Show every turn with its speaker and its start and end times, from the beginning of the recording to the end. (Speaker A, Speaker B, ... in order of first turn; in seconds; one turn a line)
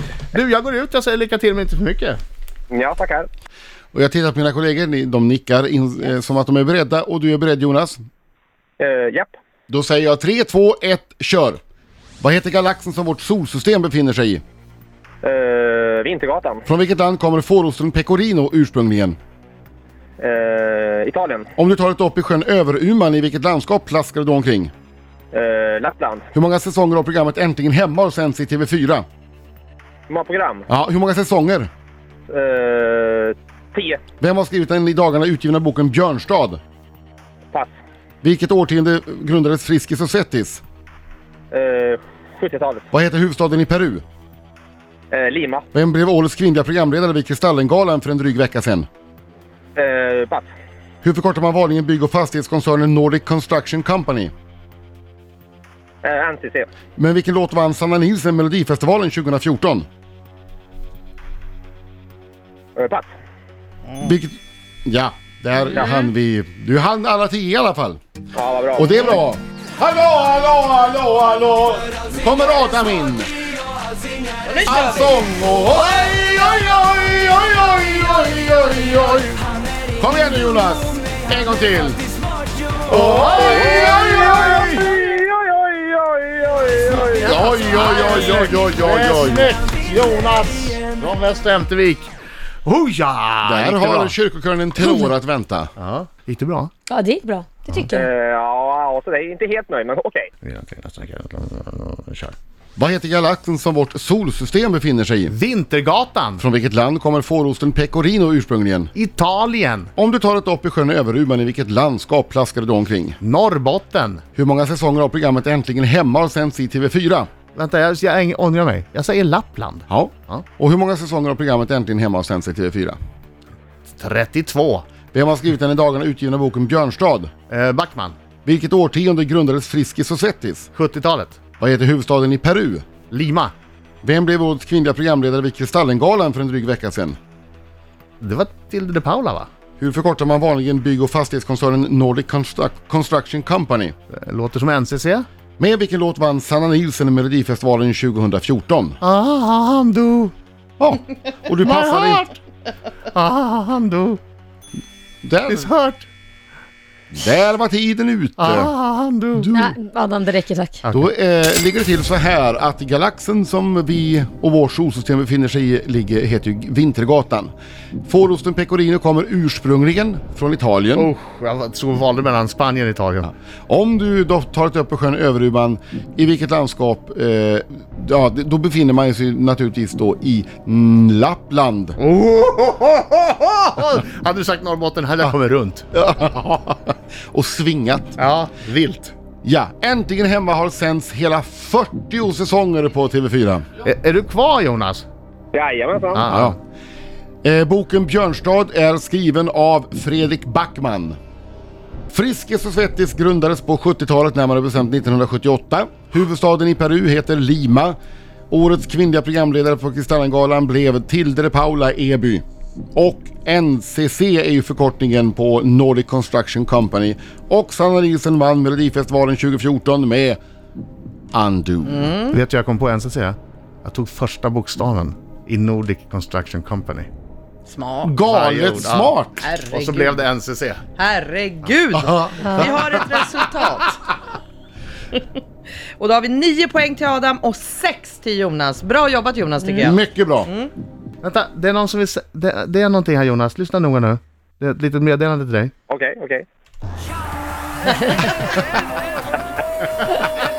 Speaker A: 0.3-2.2
Speaker B: 2.7-3.3
Speaker C: 3.9-8.0
Speaker B: 8.8-9.3
Speaker C: 9.7-11.6
Speaker C: 12.2-14.4
Speaker B: 15.2-16.6
Speaker C: 16.7-19.2
Speaker B: 20.2-21.5
Speaker C: 21.6-24.7
Speaker B: 25.3-26.3
Speaker C: 26.3-29.1
Speaker B: 30.1-30.7
Speaker C: 30.7-31.7
Speaker B: 32.3-34.0
Speaker C: 34.2-36.6
Speaker C: 38.2-40.6
Speaker B: 41.5-42.9
Speaker C: 42.9-44.0
Speaker B: 45.1-45.6
Speaker C: 45.7-48.9
Speaker B: 49.8-50.5
Speaker C: 51.0-54.3
Speaker B: 56.0-56.7
Speaker C: 57.0-59.9
Speaker B: 62.8-63.1
Speaker C: 64.0-68.0
Speaker B: 65.8-66.1
Speaker B: 68.3-69.0
Speaker C: 68.8-73.3
Speaker D: 74.5-74.9
Speaker C: 74.6-79.4
Speaker C: 80.0-82.0
Speaker C: 82.9-84.8
Speaker A: 82.9-84.8
Speaker B: 83.0-87.4
Speaker C: 87.0-89.5
Speaker A: 87.2-92.1
Speaker A: 92.7-94.2
Speaker C: 93.4-95.7
Speaker A: 95.8-96.7
Speaker E: 96.9-98.1
Speaker B: 97.9-100.3
Speaker A: 100.4-102.3
Speaker C: 102.8-105.3
Speaker A: 105.3-106.4
Speaker C: 106.4-108.9
Speaker A: 109.0-109.9
Speaker C: 110.0-113.2
Speaker A: 113.2-114.2
Speaker C: 114.3-117.3
Speaker A: 117.5-120.4
Speaker C: 119.9-123.0
Speaker A: 123.9-124.9
Speaker C: 125.1-127.3
Speaker A: 127.5-128.2
Speaker C: 128.4-130.7
Speaker A: 130.7-131.4
Speaker C: 131.6-132.9
Speaker A: 133.1-133.5
Speaker C: 134.0-137.2
Speaker A: 138.2-139.5
Speaker C: 139.8-143.9
Speaker A: 144.1-145.3
Speaker C: 145.6-149.0
Speaker A: 149.0-150.3
Speaker C: 150.8-152.3
Speaker A: 151.6-152.3
Speaker A: 153.1-154.2
Speaker C: 155.2-155.7
Speaker A: 155.5-156.1
Speaker C: 157.1-158.7
Speaker A: 158.4-159.5
Speaker C: 159.4-159.7
Speaker E: 159.5-160.8
Speaker A: 160.8-161.1
Speaker C: 160.9-167.5
Speaker C: 168.1-171.1
Speaker A: 171.0-173.3
Speaker C: 173.7-182.0
Speaker A: 182.0-185.9
Speaker C: 185.9-188.2
Speaker A: 188.2-189.1
Speaker C: 189.4-193.7
Speaker A: 193.8-195.1
Speaker B: 195.5-196.3
Speaker A: 196.1-196.6
Speaker C: 196.3-196.6
Speaker C: 197.4-201.2
Speaker C: 202.1-208.0
Speaker C: 208.5-212.4
Speaker C: 212.9-220.4
Speaker C: 221.3-222.1
Speaker D: 221.9-222.3
Speaker A: 222.3-227.1
Speaker D: 227.7-228.2
Speaker C: 228.0-229.5
Speaker A: 228.2-229.1
Speaker D: 229.4-230.2
Speaker A: 229.7-230.8
Speaker D: 231.0-233.9
Speaker A: 232.4-232.9
Speaker D: 236.0-240.7
Speaker C: 239.8-240.5
Speaker A: 241.2-245.7
Speaker B: 245.9-246.4